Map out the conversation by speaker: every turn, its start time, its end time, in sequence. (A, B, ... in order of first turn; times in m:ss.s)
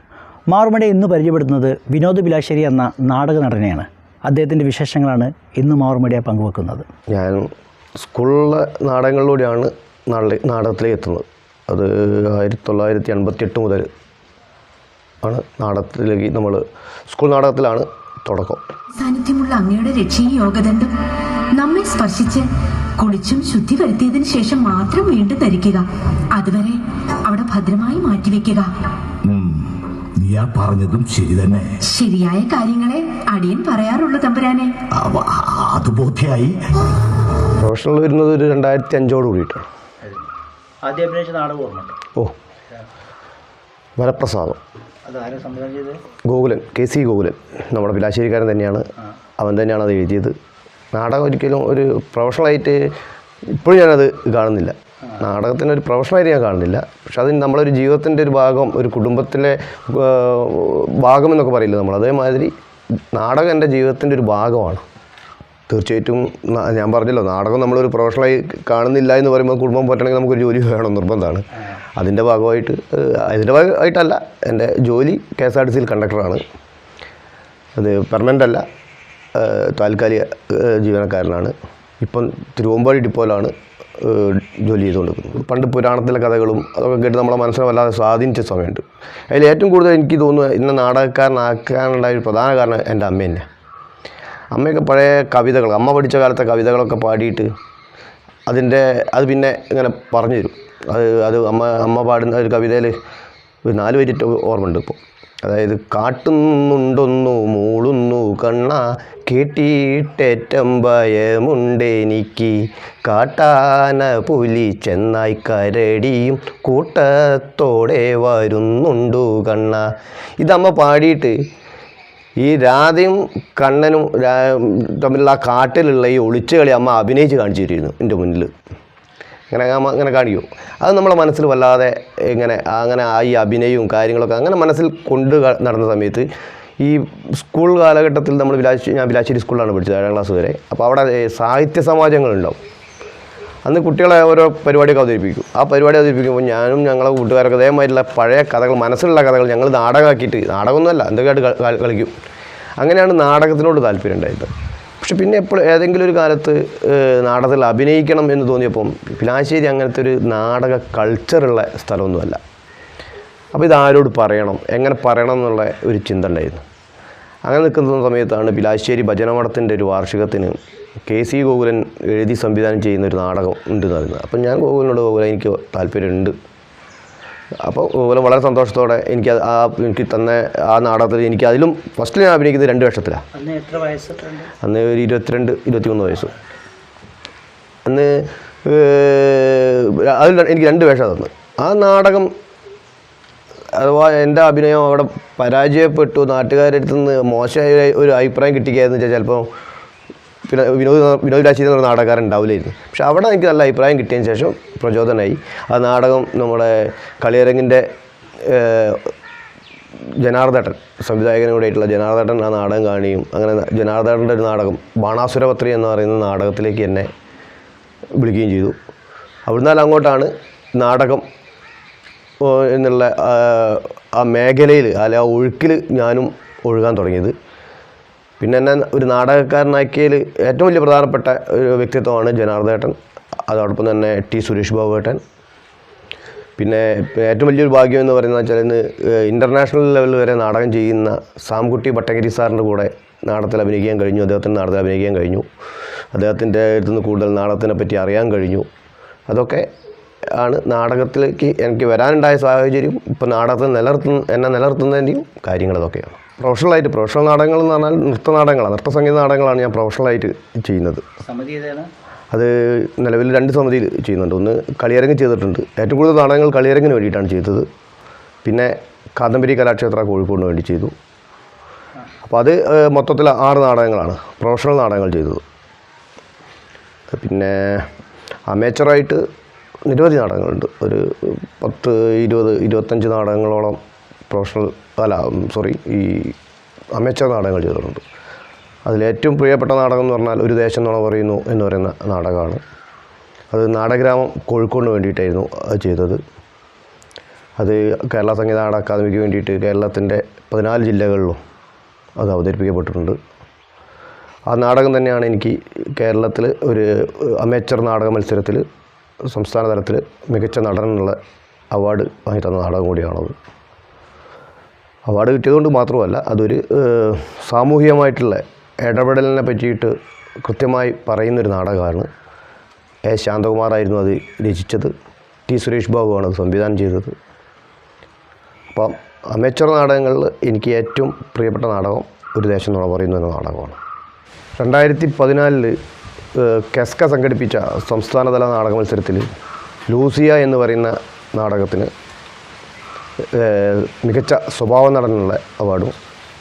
0:00.5-0:06.9 A
0:07.1-0:07.5 B
0:08.0-0:13.9 B
0:15.2-0:18.6 B
0:19.0-0:20.9 C
0:21.6-0:28.7 C
0:29.3-0:31.8 D
0:31.8-0:34.8 C
0:34.9-0:36.6 D
0:37.6-0:39.6 B
0:40.0-0:40.3 A
0:40.8-0:42.0 A
0:44.0-0:44.6 B
0:45.1-0:46.0 A
0:46.3-0:48.8 B
0:49.4-0:50.3 B
0:50.9-0:52.9 B
0:53.5-1:02.5 B
1:03.1-1:04.8 B
1:05.7-1:11.4 B
1:12.0-1:16.4 B
1:17.8-1:18.6 B
1:19.3-1:33.5 B
1:34.5-1:37.5 B
1:38.5-1:42.9 B
1:43.6-1:59.9 B
2:00.4-2:01.4 B
2:02.4-2:08.5 B
2:09.5-2:16.3 B
2:16.8-2:22.6 B
2:23.6-2:32.1 B
2:32.8-2:42.4 B
2:43.5-2:46.6 B
2:47.5-2:50.6 B
2:51.1-2:56.3 B
2:57.6-3:03.2 B
3:03.3-3:04.5 A
3:04.6-3:06.3 B
3:07.9-3:12.3 B
3:13.7-3:19.5 B
3:20.5-3:27.8 B
3:28.4-3:29.1 B
3:30.2-3:37.1 B
3:38.2-3:38.8 B
3:39.5-3:41.2 B
3:42.4-3:47.4 B
3:48.4-3:55.2 B
3:56.6-4:05.5 B
4:06.1-4:08.7 B
4:09.3-4:09.7 B
4:10.4-4:21.0 B
4:21.2-4:21.9 A
4:22.3-4:27.7 B
4:28.4-4:30.9 B
4:32.2-4:35.4 B
4:37.1-4:37.9 B
4:38.5-4:39.2 B
4:39.9-4:43.8 B
4:44.3-4:46.4 B
4:46.9-4:48.0 B
4:48.9-4:52.6 B
4:53.5-4:56.2 B
4:57.6-5:01.4 B
5:02.2-5:03.2 B
5:04.5-5:08.6 B
5:09.3-5:11.2 B
5:11.7-5:13.4 B
5:15.1-5:22.1 B
5:23.1-5:24.9 B
5:25.5-5:27.2 B
5:28.7-5:33.8 B
5:34.6-5:35.8 B
5:36.4-5:39.3 B
5:39.9-5:41.9 B
5:43.3-5:45.9 B